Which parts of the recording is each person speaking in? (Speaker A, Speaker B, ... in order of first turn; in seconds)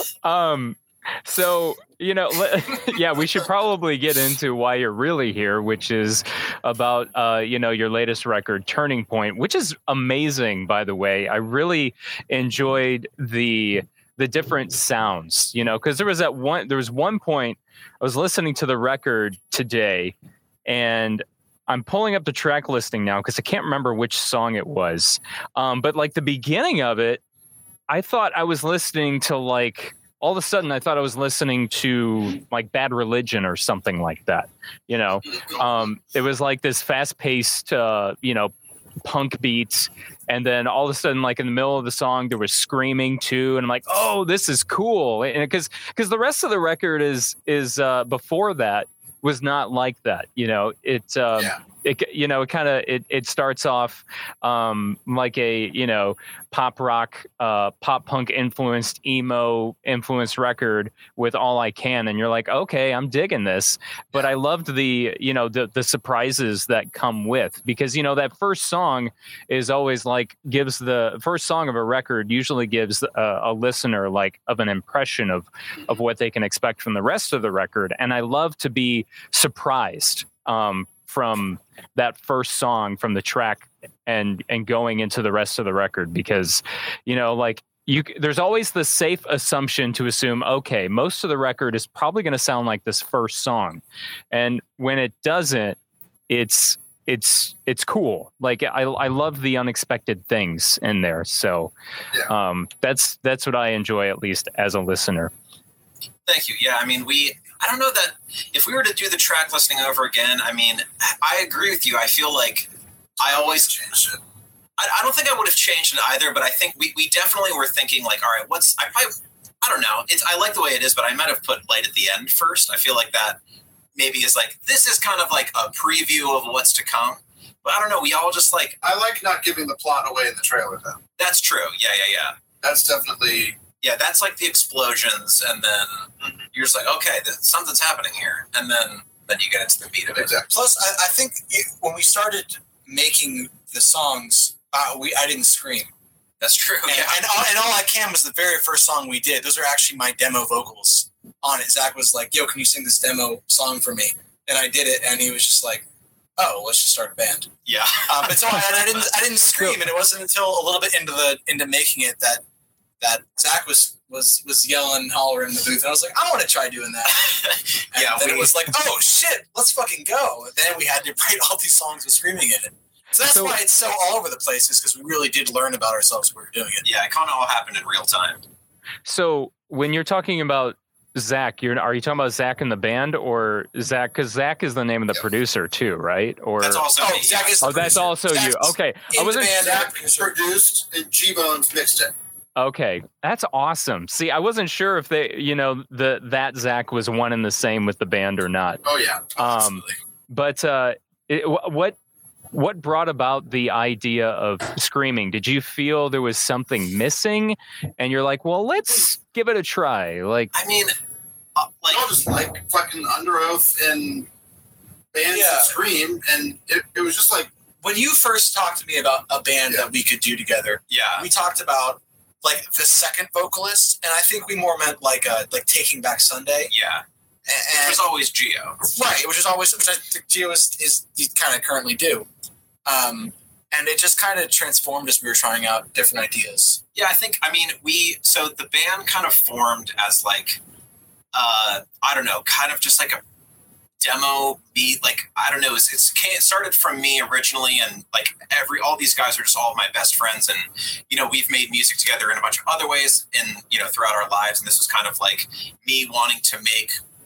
Speaker A: 0.2-20.1, 20.7-27.2, 27.9-38.5, 39.0-95.8, 96.3-101.7, 102.3-105.3, 159.5-159.8, 173.2-173.6, 179.1-186.8, 187.6-189.6, 192.6-198.8, 199.4-202.0, 202.5-210.5
Speaker B: 35.3-35.6, 113.2-114.2, 128.8-131.0, 132.6-133.6, 140.1-140.6, 189.6-192.1, 198.8-199.5, 211.9-214.3, 215.1-217.5
Speaker C: 106.3-113.9, 114.8-123.4, 124.0-128.8, 131.2-132.4, 133.8-140.3, 146.4-147.3, 157.7-158.8, 167.6-168.8, 176.8-178.4, 186.6-187.9, 210.5-210.9, 211.6-212.1, 220.9-221.3, 226.7-227.0, 227.7-228.8, 236.9-240.6, 241.3-243.2, 244.0-256.9
Speaker D: 140.5-145.9, 146.9-155.9, 156.4-157.5, 158.1-162.4, 163.0-176.9, 187.0-190.4, 199.4-200.0, 215.3-215.8, 217.8-226.7, 227.5-228.1, 228.8-232.3, 232.9-236.8